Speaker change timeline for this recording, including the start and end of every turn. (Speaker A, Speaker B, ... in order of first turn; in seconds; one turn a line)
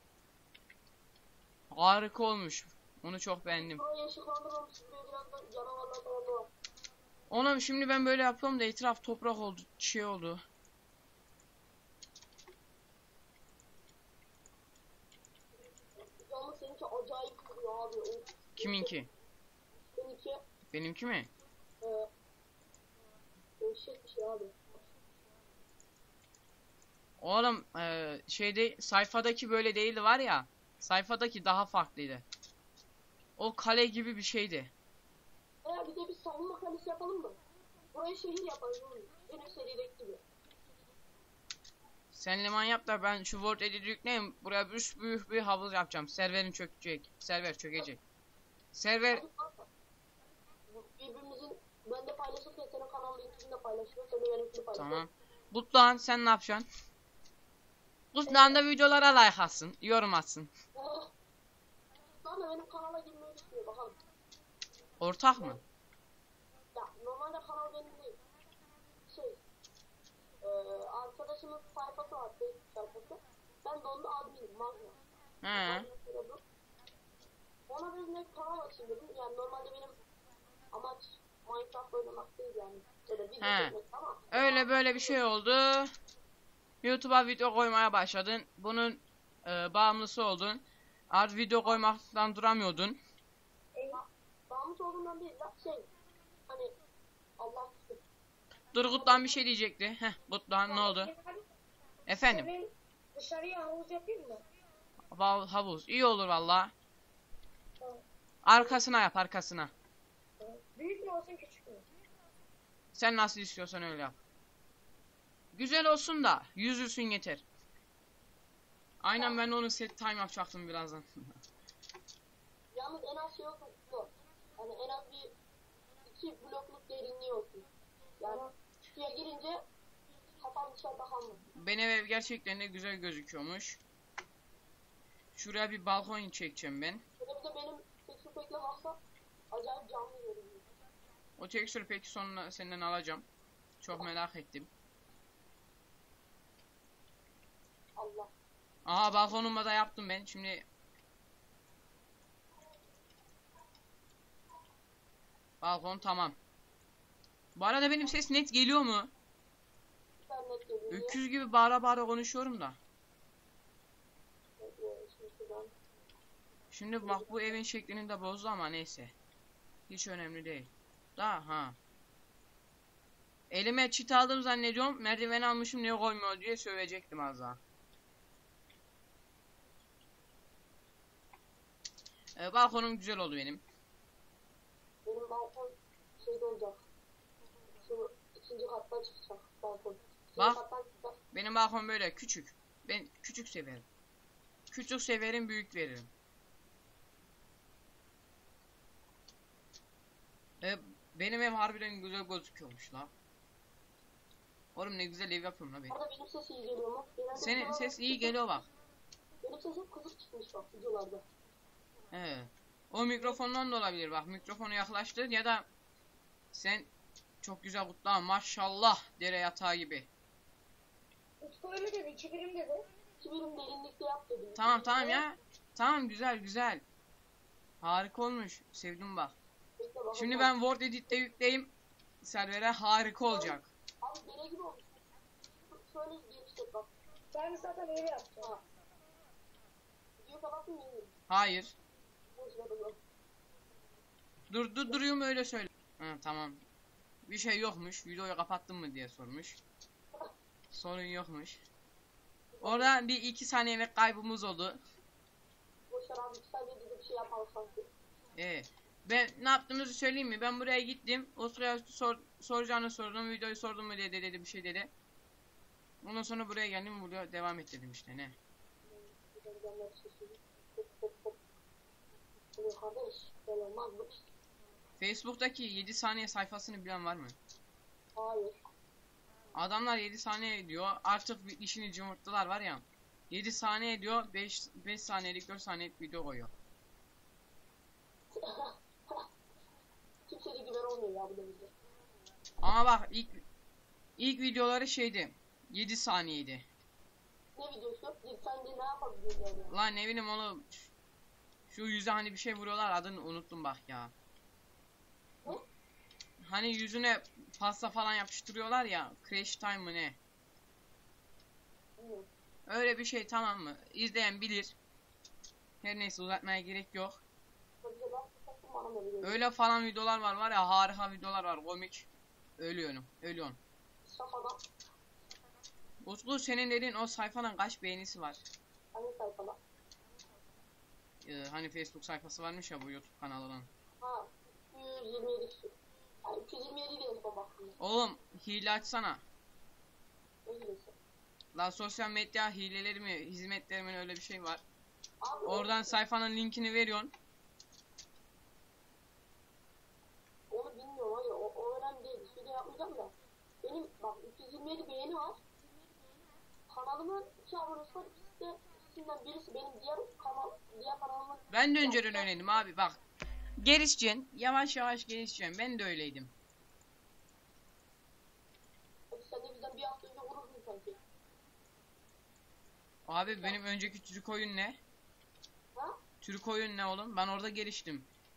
Speaker A: 1.7-3.8
Speaker B: 3.5-6.5
Speaker A: 7.3-10.4
Speaker B: 16.2-18.9
Speaker A: 18.6-19.1
Speaker B: 20.0-20.4
Speaker A: 20.7-21.3
Speaker B: 21.8-22.1
Speaker B: 23.6-24.6
Speaker A: 27.2-32.2
Speaker A: 33.4-34.7
Speaker B: 35.6-37.4
Speaker B: 37.9-40.2
Speaker A: 42.1-48.0
Speaker A: 48.7-49.2
Speaker B: 49.1-49.7
Speaker B: 50.7-55.0
Speaker A: 54.7-56.6
Speaker A: 58.1-60.5
Speaker B: 58.3-58.5
Speaker B: 60.8-61.1
Speaker B: 62.2-64.0
Speaker A: 65.0-65.6
Speaker B: 66.7-68.2
Speaker B: 69.1-69.4
Speaker B: 70.4-75.0
Speaker A: 75.4-75.9
Speaker B: 75.5-76.4
Speaker B: 77.7-80.0
Speaker B: 80.7-85.2
Speaker A: 83.4-83.7
Speaker A: 84.3-85.9
Speaker A: 86.8-93.0
Speaker C: 93.8-94.0
Speaker B: 93.9-95.9
Speaker B: 96.5-96.7
Speaker B: 97.4-98.0
Speaker A: 98.7-101.1
Speaker B: 98.9-99.3
Speaker C: 100.7-101.5
Speaker A: 102.0-102.5
Speaker C: 102.2-104.4
Speaker A: 105.1-106.7
Speaker A: 108.4-109.7
Speaker C: 110.4-111.9
Speaker A: 112.9-114.2
Speaker A: 115.5-117.4
Speaker A: 119.0-121.4
Speaker B: 122.7-125.3
Speaker B: 126.0-127.7
Speaker B: 128.2-129.6
Speaker C: 128.2-128.5
Speaker B: 130.4-131.4
Speaker A: 131.5-133.8
Speaker A: 135.3-137.0
Speaker B: 137.2-139.0
Speaker B: 139.5-140.7
Speaker A: 141.4-143.2
Speaker A: 143.8-144.7
Speaker B: 147.9-148.3
Speaker A: 148.8-150.6
Speaker A: 155.6-156.4
Speaker A: 157.6-159.1
Speaker B: 160.2-161.2
Speaker A: 160.9-162.8
Speaker B: 164.6-165.7
Speaker A: 166.7-169.1
Speaker B: 167.0-167.6
Speaker A: 169.9-171.8
Speaker A: 173.5-177.6
Speaker A: 182.3-183.6
Speaker B: 185.0-186.8
Speaker B: 187.8-191.2
Speaker A: 191.3-193.8
Speaker A: 194.7-196.1
Speaker A: 200.6-203.1
Speaker A: 204.7-205.9
Speaker B: 205.9-208.4
Speaker A: 207.3-208.7
Speaker B: 209.4-211.2
Speaker A: 212.1-215.7
Speaker A: 216.5-216.9
Speaker A: 217.4-220.1
Speaker C: 221.4-222.9
Speaker B: 223.2-225.2
Speaker A: 224.6-226.8
Speaker A: 227.8-229.3
Speaker B: 229.8-230.5
Speaker A: 230.1-233.7
Speaker B: 233.3-235.0
Speaker B: 235.7-236.9
Speaker C: 237.3-238.5
Speaker B: 240.2-241.2
Speaker A: 241.3-241.8
Speaker B: 242.3-243.0
Speaker A: 244.5-246.6
Speaker A: 247.2-249.6
Speaker A: 250.7-251.6
Speaker B: 252.5-252.9
Speaker A: 252.6-254.8
Speaker B: 255.9-257.9
Speaker A: 258.4-264.9
Speaker A: 266.0-268.4
Speaker B: 268.9-271.4
Speaker B: 272.6-274.3
Speaker A: 275.0-277.4
Speaker B: 278.1-278.6
Speaker A: 279.5-286.5
Speaker B: 288.3-289.3
Speaker B: 290.3-291.7
Speaker A: 292.6-293.4
Speaker A: 294.2-296.6
Speaker B: 297.6-299.7
Speaker A: 299.7-300.9
Speaker A: 301.7-304.1
Speaker A: 306.4-310.2
Speaker B: 312.0-312.3
Speaker A: 312.7-314.8
Speaker A: 315.8-317.2
Speaker B: 317.8-319.4
Speaker A: 319.2-323.6
Speaker B: 324.0-324.6
Speaker A: 326.0-328.4
Speaker B: 328.9-329.6
Speaker A: 331.2-333.7
Speaker B: 334.0-335.7
Speaker B: 336.2-337.8
Speaker A: 337.8-339.2
Speaker B: 340.4-340.9
Speaker A: 341.5-344.6
Speaker B: 345.2-346.0
Speaker A: 345.4-347.1
Speaker B: 350.5-355.4
Speaker B: 356.7-362.3
Speaker A: 361.5-363.0
Speaker A: 363.6-366.3
Speaker B: 369.1-371.0
Speaker A: 373.1-374.8
Speaker B: 373.3-373.6
Speaker A: 376.2-378.1